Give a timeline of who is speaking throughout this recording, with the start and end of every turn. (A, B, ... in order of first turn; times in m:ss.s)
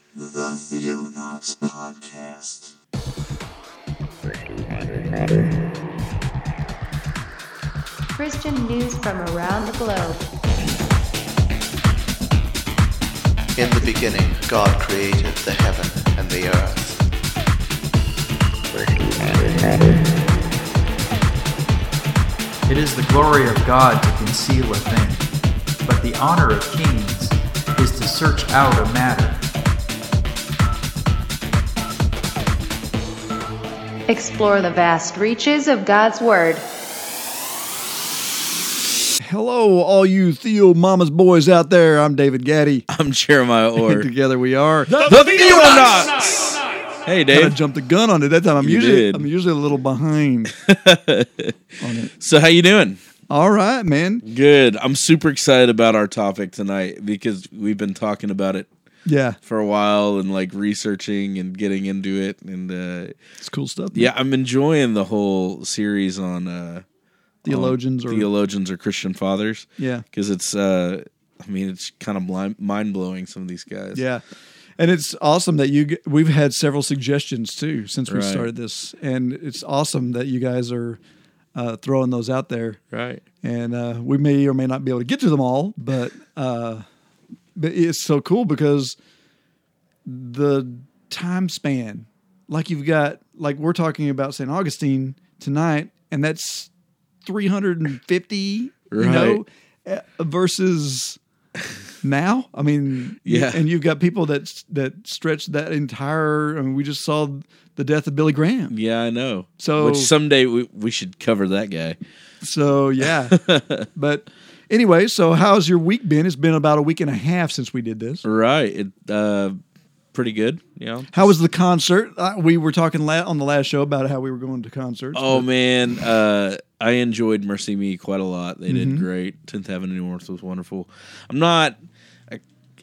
0:00.2-0:02.6 A
0:08.2-0:10.3 B
0:13.6-0:17.0 C
0:22.7-0:25.3 D
0:25.8-0:29.4 D
0:34.1-0:36.6 B
0:39.2-0:42.9 E
0:42.9-0:44.1 F
0:43.8-0:45.2 E
0:44.9-0:47.6 F
0:47.3-0:50.5 E
0:48.6-0:49.3 F
0:50.5-0:51.6 F
0:51.8-0:52.1 E
0:52.1-0:53.0 F
0:53.3-0:54.2 E
0:54.2-0:58.7 F
0:59.1-0:59.4 E
0:59.4-1:03.2 F
1:03.4-1:04.1 E
1:03.9-1:06.8 F
1:07.4-1:08.3 E
1:07.5-1:14.0 F
1:09.8-1:10.0 E
1:14.0-1:14.2 E
1:14.8-1:21.0 E
1:18.1-1:18.5 F
1:21.6-1:22.8 E
1:22.9-1:23.2 F
1:23.4-1:26.8 E
1:27.6-1:29.0 E
1:30.1-1:36.7 E
1:37.2-1:41.2 E
1:38.9-1:39.4 F
1:42.0-1:48.7 E
1:43.2-1:43.6 F
1:48.7-1:52.0 F
1:49.6-1:50.1 E
1:52.4-1:53.4 E
1:53.0-1:53.9 F
1:54.0-1:58.2 E
1:58.2-1:59.6 F
2:00.1-2:01.4 F
2:01.1-2:05.5 E
2:05.1-2:12.4 F
2:08.7-2:09.0 E